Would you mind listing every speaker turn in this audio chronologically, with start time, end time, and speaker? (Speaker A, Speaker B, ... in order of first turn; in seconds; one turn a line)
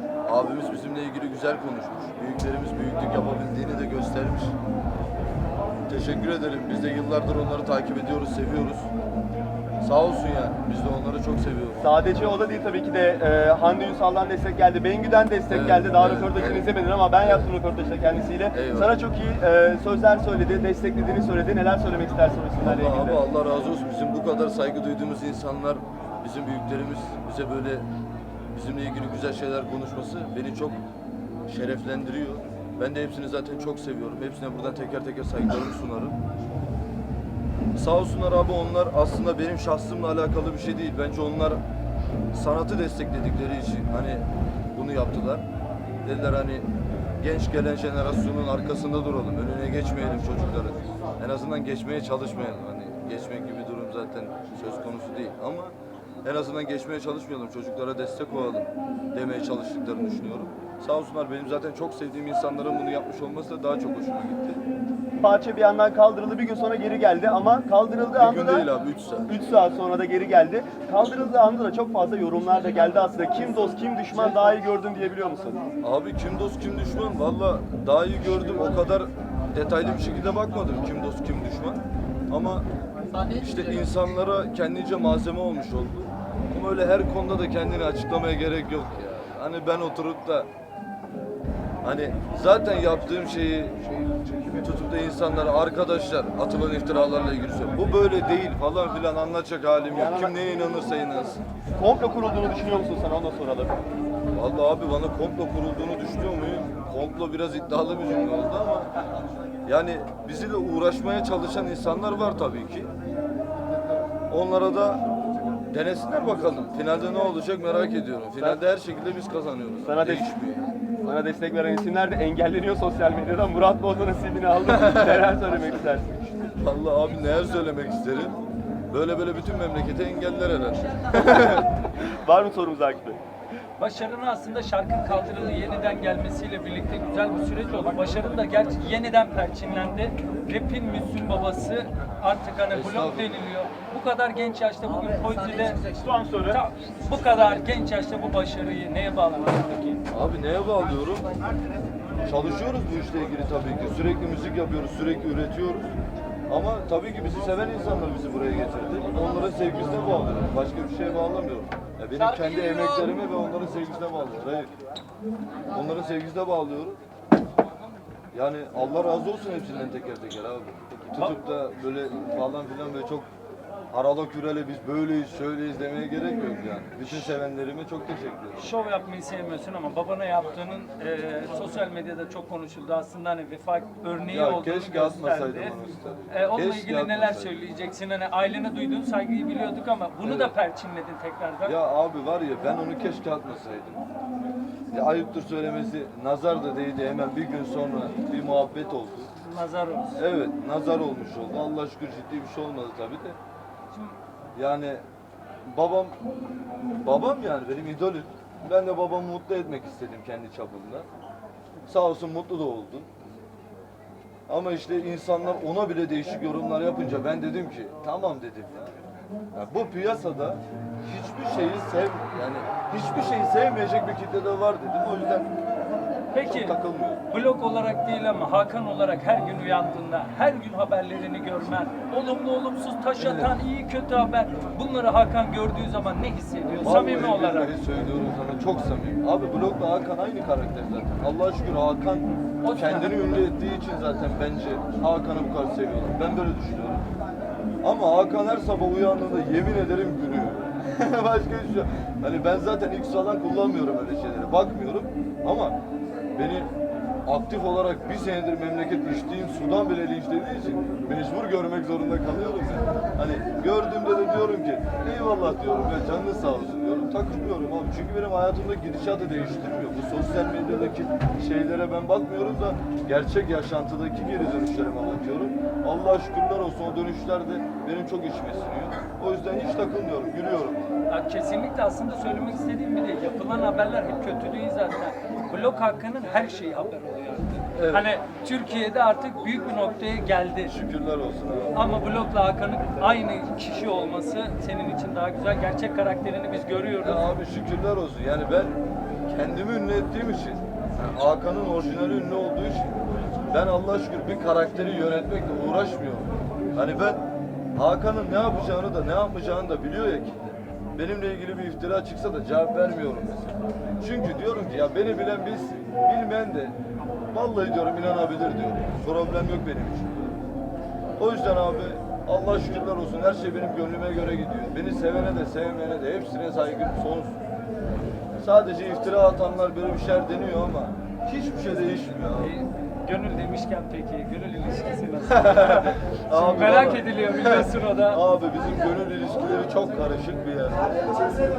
Speaker A: 0.2-4.6
Speaker A: 5.9-8.9
Speaker A: 9.8-11.8
Speaker B: 11.8-23.2
Speaker A: 15.5-17.5
Speaker A: 18.5-19.0
Speaker A: 22.6-27.9
Speaker A: 28.5-30.8
Speaker A: 31.5-36.1
Speaker A: 37.8-41.6
Speaker A: 42.3-45.4
Speaker A: 46.0-46.7
Speaker A: 47.2-64.6
Speaker B: 65.2-68.7
Speaker A: 68.2-69.3
Speaker B: 69.3-75.6
Speaker A: 75.8-82.7
Speaker A: 83.3-90.5
Speaker A: 91.8-101.4
Speaker B: 99.9-100.3
Speaker B: 101.8-103.8
Speaker A: 104.3-108.9
Speaker A: 109.7-112.9
Speaker A: 114.3-115.0
Speaker A: 115.7-120.7
Speaker B: 119.8-120.3
Speaker B: 121.0-126.3
Speaker A: 124.7-125.2
Speaker A: 126.6-128.4
Speaker A: 128.9-131.7
Speaker B: 132.2-133.2
Speaker C: 133.8-145.8
Speaker A: 142.7-143.5
Speaker B: 146.0-146.6
Speaker C: 146.5-150.0
Speaker A: 150.1-151.3
Speaker A: 152.2-155.9
Speaker A: 156.5-164.7
Speaker A: 165.7-167.0
Speaker A: 168.3-173.3
Speaker A: 173.9-178.7
Speaker C: 177.1-177.4
Speaker C: 178.6-185.8
Speaker A: 184.3-187.5
Speaker C: 186.3-191.8
Speaker A: 190.2-190.5
Speaker A: 191.6-194.0
Speaker A: 194.9-199.3
Speaker C: 199.4-200.2
Speaker A: 200.2-203.4
Speaker C: 203.9-204.2
Speaker A: 204.5-205.0
Speaker A: 205.6-206.2
Speaker A: 207.0-211.1
Speaker A: 211.9-213.1
Speaker A: 214.5-218.9
Speaker A: 219.5-225.5
Speaker C: 226.3-226.8
Speaker A: 226.4-227.2
Speaker C: 227.3-237.7
Speaker A: 233.2-233.5
Speaker A: 236.8-247.1
Speaker C: 242.6-243.2
Speaker A: 247.8-255.8
Speaker A: 256.4-256.7
Speaker A: 257.2-281.0
Speaker C: 281.1-290.7
Speaker A: 287.7-288.1
Speaker A: 290.6-291.8
Speaker C: 291.7-297.3
Speaker A: 297.0-298.7
Speaker A: 299.3-302.9
Speaker A: 303.5-307.2
Speaker A: 307.7-316.8
Speaker A: 317.3-320.4
Speaker A: 321.2-327.4
Speaker A: 328.4-332.5
Speaker C: 332.4-338.2
Speaker A: 335.2-340.9